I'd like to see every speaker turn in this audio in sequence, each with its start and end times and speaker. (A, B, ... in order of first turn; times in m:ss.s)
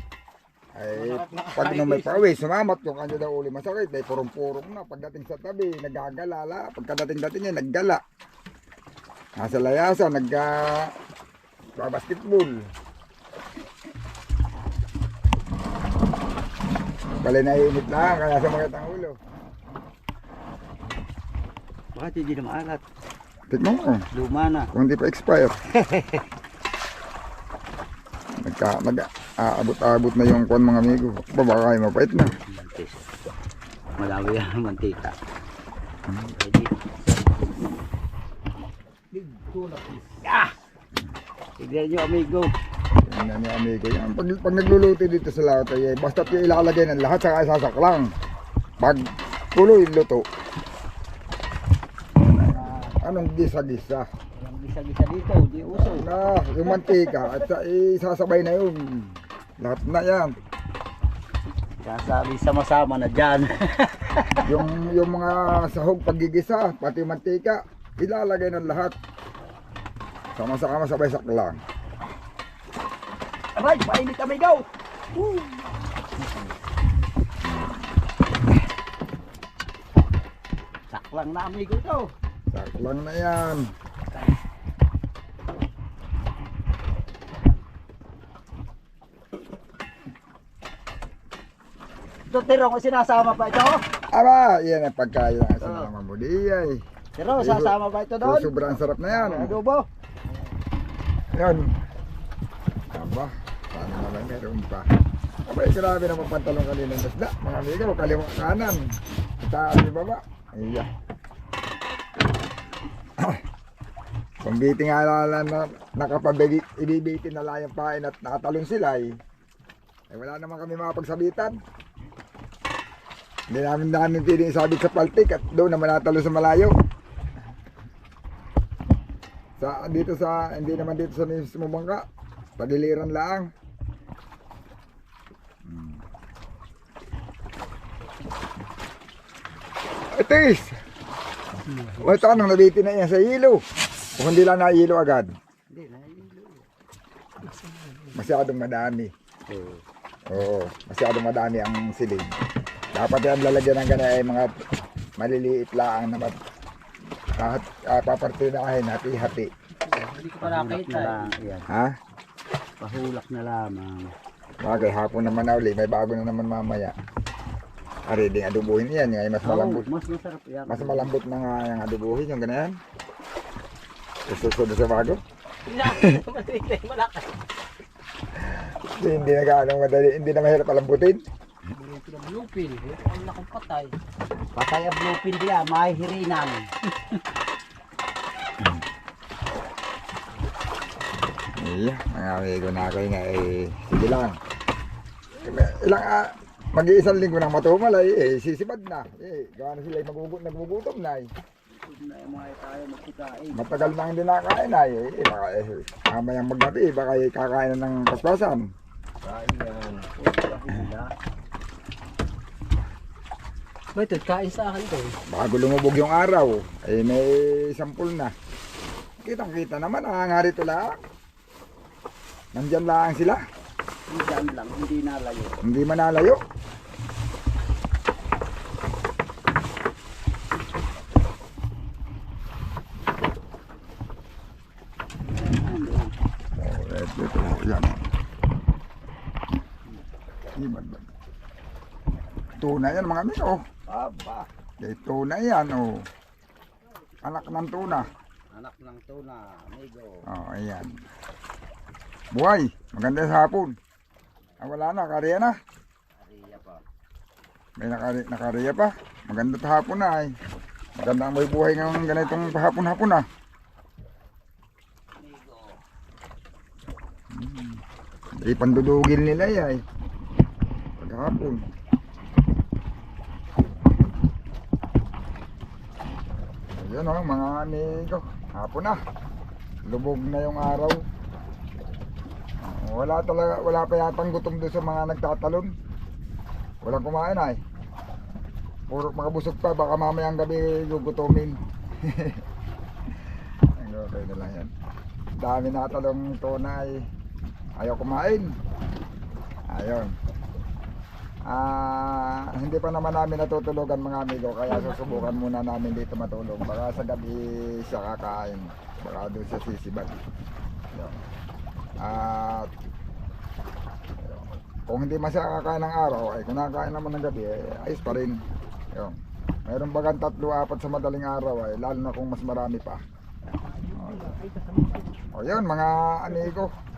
0:00.8-0:08.0 A
0:01.0-0:01.8 B
0:01.6-0:02.2 C
0:09.4-0:10.9 A
0:11.8-0:12.6 A
0:17.1-0:19.2 A
0:22.0-0:22.8 B
0:23.5-0:24.0 A
0:24.1-0:24.7 B
0:24.7-0:25.6 A
0:25.8-0:26.2 B
0:28.4-0:32.3 A
0:32.5-0:33.0 B
0:34.0-0:35.2 B
0:36.4-0:36.7 B
0:39.1-0:40.2 C
0:40.2-0:40.5 B
0:41.6-0:42.5 B
0:43.0-0:48.1 A
0:48.8-0:50.3 A
0:52.2-0:53.0 B
0:52.2-0:54.1 A
0:54.3-0:56.1 B
0:55.7-1:00.3 A
1:01.8-1:04.5 B
1:04.4-1:09.0 A
1:10.4-1:11.6 A
1:13.6-1:15.6 B
1:16.2-1:16.5 B
1:17.4-1:17.8 A
1:20.9-1:22.1 B
1:22.5-1:23.7 A
1:32.3-1:33.8 B
1:34.1-1:36.8 A
1:35.6-1:35.9 B
1:37.2-1:39.9 B
1:37.4-1:39.6 A
1:41.3-1:41.7 A
1:42.9-1:44.9 A
1:45.5-1:48.9 A
1:49.4-1:50.9 A
1:54.4-1:59.1 A
2:00.1-2:01.6 A
2:03.5-2:06.7 A
2:09.6-2:12.0 A
2:12.6-2:13.5 A
2:15.7-2:16.0 A
2:20.1-2:20.8 A
2:21.6-2:22.3 C
2:22.0-2:23.6 A
2:24.2-2:25.3 A
2:25.7-2:26.7 B
2:27.4-2:28.2 C
2:28.1-2:29.1 A
2:29.5-2:29.8 B
2:30.3-2:32.4 A
2:32.9-2:34.5 A
2:35.2-2:36.4 A
2:37.4-2:39.5 A
2:39.9-2:41.3 C
2:40.4-2:41.7 B
2:41.7-2:42.0 A
2:42.8-2:44.1 B
2:44.6-2:46.9 A
2:48.1-2:49.9 A
2:49.4-2:51.1 B
2:50.7-2:52.7 A
2:54.3-2:55.2 A
2:55.7-2:57.3 C
2:58.3-3:01.2 A
3:01.8-3:04.0 C
3:04.6-3:06.7 B
3:11.6-3:14.4 A
3:15.4-3:21.3 A
3:21.7-3:24.0 B
3:23.5-3:28.7 A
3:29.2-3:31.1 B
3:34.0-3:35.2 C
3:35.3-3:38.3 A
3:39.2-3:40.9 A
3:42.6-3:43.4 A
3:44.1-3:45.6 B
3:45.6-3:46.4 A
3:55.6-3:56.1 B
3:56.6-3:58.0 A
4:00.6-4:01.0 A
4:02.6-4:03.6 A
4:03.9-4:04.5 B
4:04.8-4:06.0 A
4:07.2-4:08.1 A
4:08.5-4:10.1 B
4:10.3-4:11.0 A
4:12.3-4:13.8 A
4:14.6-4:15.5 A
4:16.1-4:16.8 B
4:17.8-4:20.3 A
4:21.0-4:23.3 A
4:25.2-4:25.8 B
4:27.3-4:27.8 A
4:28.4-4:29.8 A
4:31.0-4:31.6 A
4:36.8-4:39.0 A
4:39.9-4:41.0 A
4:42.6-4:45.7 A
4:46.8-4:47.6 A
4:48.9-4:52.4 A
4:53.2-4:54.7 A
4:55.4-4:56.9 A
4:57.8-4:58.5 A
4:59.7-5:00.1 A
5:01.5-5:10.2 A
5:04.7-5:05.2 C
5:10.9-5:11.2 A
5:12.0-5:12.7 A
5:14.2-5:18.4 A
5:18.9-5:23.0 A
5:23.7-5:25.2 C
5:23.9-5:24.3 A
5:25.3-5:26.7 A